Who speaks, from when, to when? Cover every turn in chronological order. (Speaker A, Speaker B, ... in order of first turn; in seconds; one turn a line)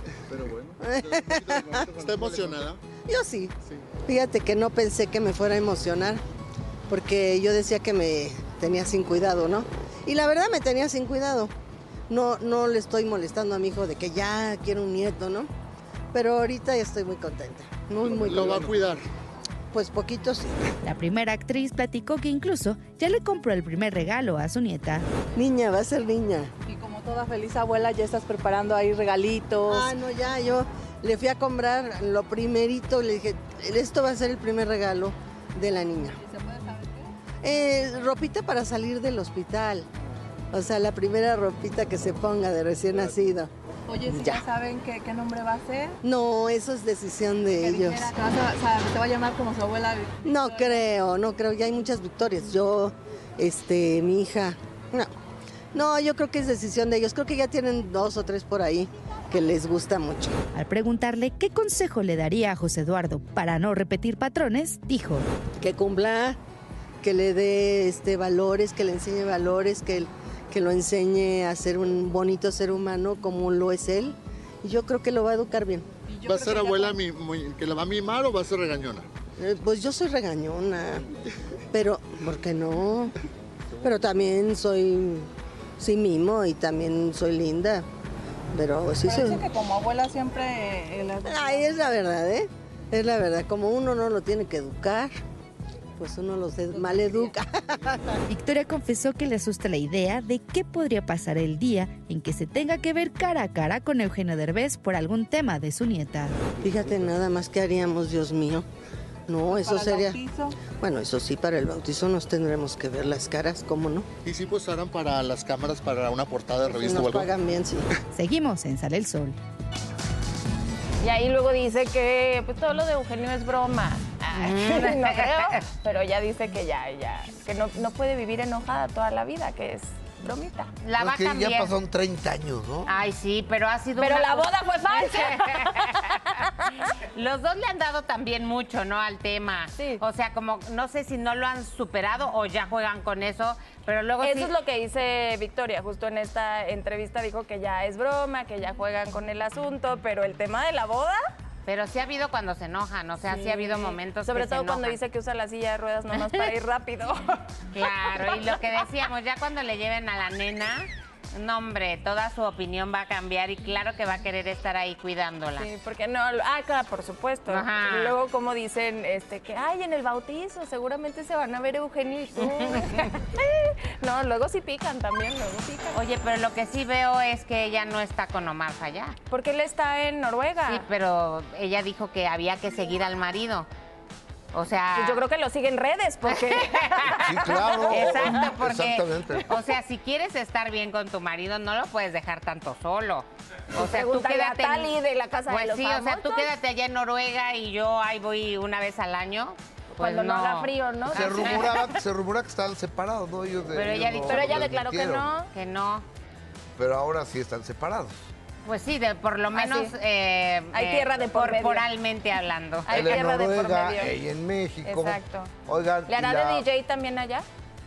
Speaker A: 0.8-2.0
Speaker B: 1.9-2.8
Speaker A: 3.0-6.2
Speaker A: 6.9-11.5
Speaker A: 12.1-15.5
Speaker A: 16.1-18.9
Speaker B: 18.0-19.0
Speaker A: 19.7-20.7
Speaker C: 20.8-25.1
Speaker A: 25.4-26.5
Speaker D: 26.7-29.8
Speaker A: 29.7-36.2
Speaker D: 36.3-37.1
Speaker A: 37.4-39.9
Speaker A: 40.5-43.5
Speaker D: 43.9-45.9
Speaker A: 44.1-44.4
Speaker A: 46.0-48.1
Speaker D: 47.7-50.2
Speaker A: 50.2-55.1
Speaker A: 55.7-60.4
Speaker C: 60.5-65.2
Speaker A: 65.6-66.4
Speaker A: 67.0-75.9
Speaker D: 76.1-76.6
Speaker B: 76.2-79.1
Speaker A: 79.4-81.1
Speaker A: 81.7-83.1
Speaker A: 83.8-85.3
Speaker A: 85.8-87.8
Speaker A: 88.5-89.4
Speaker D: 89.4-91.3
Speaker A: 91.2-95.2
Speaker A: 96.0-98.2
Speaker C: 98.3-106.3
Speaker A: 106.6-108.6
Speaker A: 109.3-114.1
Speaker D: 109.6-110.5
Speaker B: 114.2-117.3
Speaker A: 116.7-117.9
Speaker C: 118.1-119.3
Speaker E: 121.0-130.7
Speaker F: 124.3-125.6
Speaker F: 130.8-131.8
Speaker G: 131.0-132.9
Speaker F: 132.8-144.5
Speaker E: 134.0-136.9
Speaker E: 144.2-151.2
Speaker F: 151.7-155.0
Speaker E: 153.3-157.4
Speaker F: 156.1-156.5
Speaker F: 157.7-165.7
Speaker E: 165.6-176.0
Speaker F: 167.5-168.2
Speaker F: 172.7-173.1
Speaker F: 175.9-179.1
Speaker E: 179.3-180.9
Speaker F: 180.7-183.7
Speaker F: 184.5-185.2
Speaker E: 184.9-188.4
Speaker F: 186.2-187.2
Speaker G: 187.1-189.5
Speaker F: 187.9-194.9
Speaker E: 193.8-196.5
Speaker F: 195.5-201.9
Speaker E: 200.0-201.7
Speaker G: 201.1-205.3
Speaker F: 203.7-204.7
Speaker E: 204.2-205.5
Speaker F: 205.5-206.0
Speaker G: 206.8-208.2
Speaker F: 208.6-213.2
Speaker E: 209.5-209.9
Speaker E: 210.7-211.9
Speaker E: 212.9-214.2
Speaker G: 212.9-216.6
Speaker E: 214.8-215.5
Speaker E: 216.1-217.4